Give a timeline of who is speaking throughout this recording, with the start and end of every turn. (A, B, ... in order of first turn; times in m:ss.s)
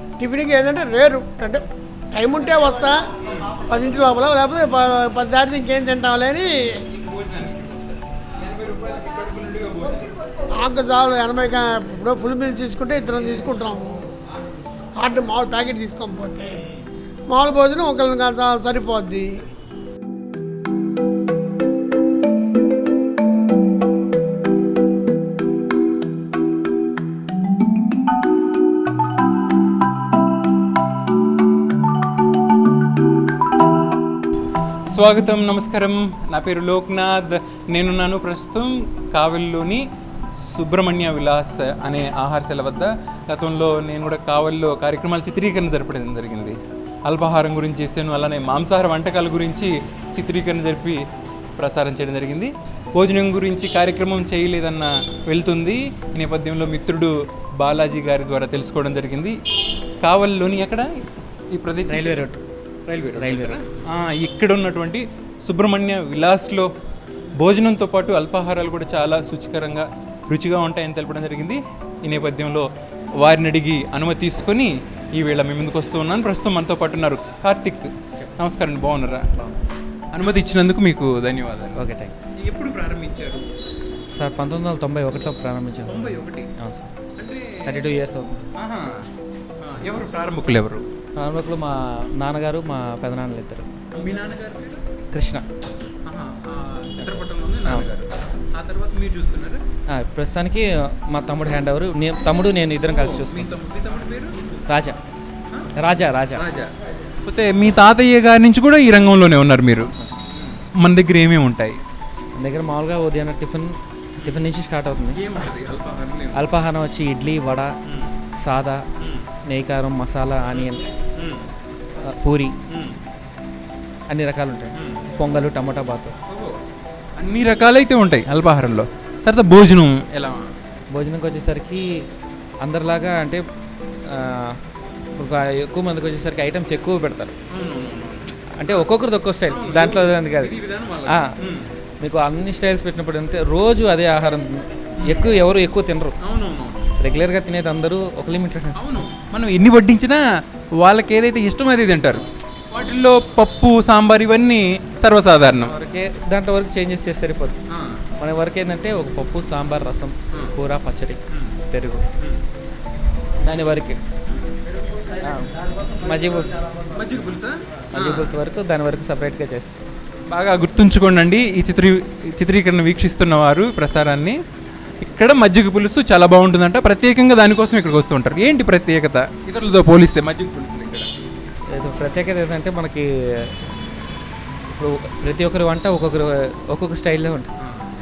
0:00.2-0:03.1 A
0:03.3-0:03.6 B
0:03.7-0:06.8 A
0:06.9-0:10.2 B
0:10.6-0:14.1 A
0:15.0-0:16.6 A
0:16.4-0:16.9 B
0:17.3-0:19.4 A
0:34.9-0:39.9 B
0:40.4-0:51.0 B
0:51.6-0:59.4 B
1:00.0-1:02.2 B
1:01.9-1:03.6 C
1:02.8-1:06.7 B
1:07.4-1:12.7 B
1:13.2-1:19.6 B
1:20.1-1:21.8 B
1:21.8-1:22.2 C
1:22.3-1:23.5 B
1:24.2-1:26.9 C
1:25.9-1:26.5 B
1:27.2-1:27.9 B
1:27.6-1:28.4 C
1:28.6-1:29.0 B
1:29.6-1:30.8 B
1:31.2-1:33.7 C
1:33.9-1:34.8 B
1:35.1-1:35.4 C
1:36.0-1:39.6 B
1:39.9-1:43.5 C
1:42.9-1:44.4 B
1:44.7-1:45.0 C
1:45.7-1:46.4 C
1:46.4-1:46.7 B
1:47.2-1:51.8 B
1:52.3-1:55.2 C
1:55.1-1:56.5 B
1:56.3-1:57.7 C
1:57.9-1:58.1 B
1:58.4-1:58.8 C
1:59.0-1:59.2 B
1:59.5-2:00.8 C
2:00.5-2:01.5 B
2:02.0-2:02.6 C
2:02.7-2:03.0 B
2:04.1-2:06.1 C
2:04.8-2:05.1 B
2:06.3-2:06.6 B
2:07.2-2:10.5 B
2:10.9-2:12.0 C
2:12.6-2:13.4 C
2:14.0-2:14.6 C
2:15.2-2:17.3 C
2:17.5-2:18.9 B
2:18.6-2:20.5 C
2:19.5-2:21.7 B
2:21.0-2:21.3 C
2:22.0-2:26.2 C
2:25.0-2:25.4 B
2:26.2-2:26.9 B
2:27.0-2:29.0 C
2:28.7-2:35.7 B
2:35.6-2:37.6 C
2:37.7-2:38.0 B
2:38.2-2:42.1 C
2:41.3-2:41.6 B
2:43.4-2:44.0 C
2:45.1-2:46.8 C
2:46.8-2:48.4 B
2:47.9-2:49.8 C
2:50.3-2:54.4 B
2:55.0-3:01.1 B
3:01.7-3:03.5 C
3:04.7-3:07.5 C
3:07.6-3:07.9 B